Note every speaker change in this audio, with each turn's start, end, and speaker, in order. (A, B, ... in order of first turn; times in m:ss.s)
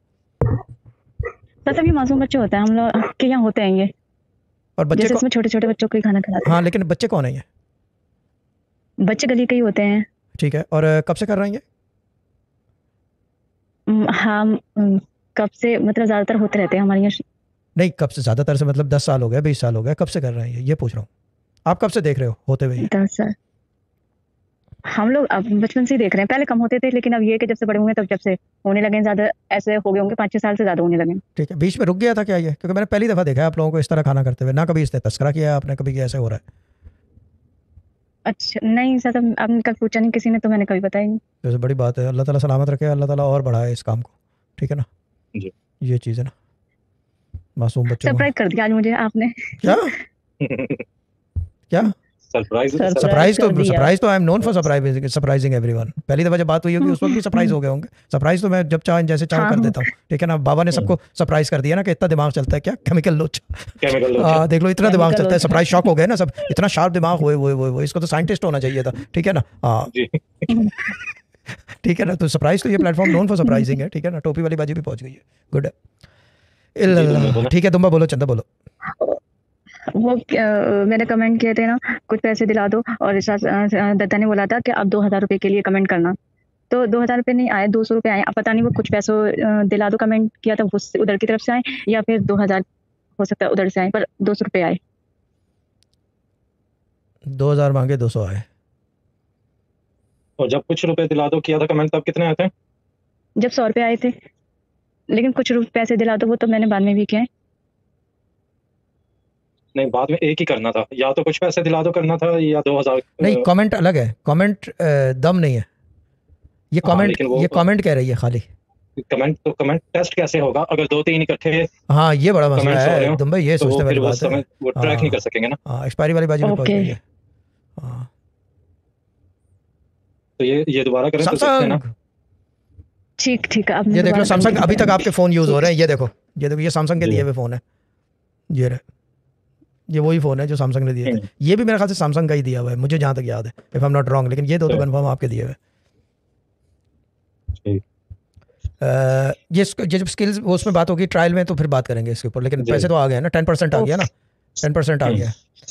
0:01.7-0:03.9 A
0:04.8-0:05.2 B
0:04.9-0:06.6 A
0:06.4-0:07.4 B
0:09.0-0:10.1 A
0:10.4-0:11.6 B
0:13.9-0:17.2 A
0:17.8-0:21.1 B
0:21.7-0:22.9 B
0:22.8-0:23.4 A
0:24.9-0:31.2 A
0:31.4-0:36.4 B
0:38.3-0:41.2 A
0:41.4-0:44.9 B
0:45.8-0:46.3 B
0:47.6-0:48.3 B
0:48.0-0:50.0 A
0:49.6-0:49.9 B
0:50.4-0:50.8 C
0:51.7-0:52.0 B
0:52.3-0:53.3 C
0:52.8-0:53.9 A
0:53.0-1:09.9 B
0:56.9-0:57.6 A
0:59.3-0:59.8 A
1:03.8-1:04.5 C
1:04.8-1:05.9 A
1:09.9-1:10.5 C
1:11.8-1:15.7 B
1:16.8-1:18.5 B
1:16.9-1:17.5 C
1:19.9-1:26.2 A
1:26.7-1:32.6 A
1:33.2-1:34.8 A
1:37.3-1:38.4 B
1:40.4-1:42.5 C
1:43.4-1:44.1 A
1:45.1-1:47.3 A
1:49.8-1:53.5 C
1:53.2-1:55.7 B
1:56.7-1:58.5 B
1:56.8-1:57.6 C
1:59.0-2:01.7 C
2:01.9-2:07.0 B
2:02.6-2:05.6 C
2:06.4-2:06.9 A
2:07.8-2:08.1 B
2:10.4-2:11.8 C
2:11.2-2:11.9 B
2:13.2-2:15.1 A
2:13.9-2:17.6 B
2:18.5-2:18.8 B
2:19.9-2:25.6 B
2:28.8-2:34.1 B
2:32.6-2:32.9 C
2:33.8-2:34.1 A
2:34.6-2:35.4 B